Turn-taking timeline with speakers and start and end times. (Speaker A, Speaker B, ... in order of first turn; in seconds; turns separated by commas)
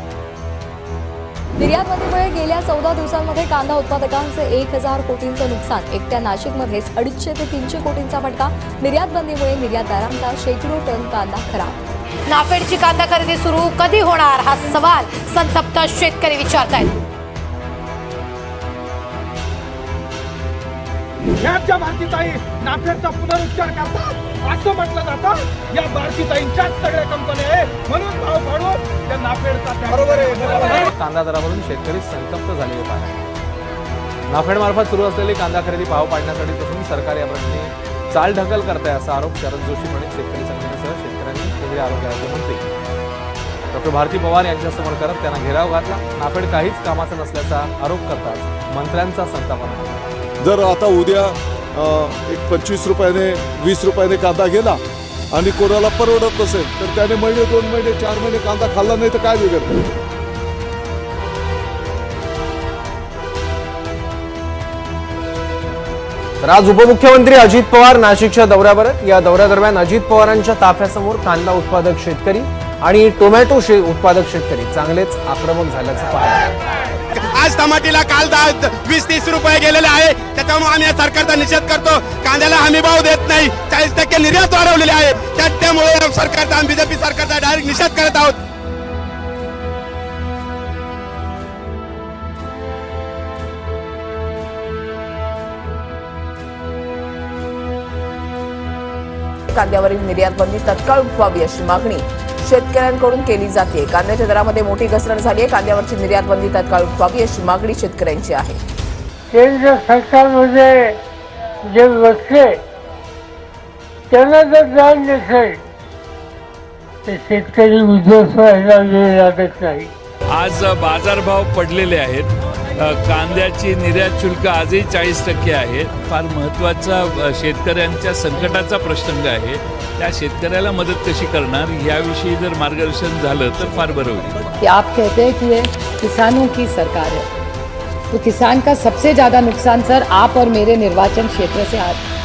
Speaker A: 1.6-11.8, Speaker B: 12.3-16.9, Speaker C: 21.4-30.8, Speaker D: 30.7-33.2, Speaker D: 34.3-42.6, Speaker D: 43.7-50.1, Speaker E: 50.4-54.8, Speaker E: 55.3-59.7, Speaker F: 66.5-67.9, Speaker G: 66.6-72.3, Speaker F: 68.8-76.4, Speaker G: 72.9-75.6, Speaker H: 77.1-88.3, Speaker I: 99.5-108.6, Speaker G: 109.4-110.6, Speaker G: 114.5-115.4, Speaker G: 118.5-119.7, Speaker J: 120.4-122.2, Speaker J: 123.1-134.3, Speaker K: 134.6-137.3, Speaker K: 138.1-142.0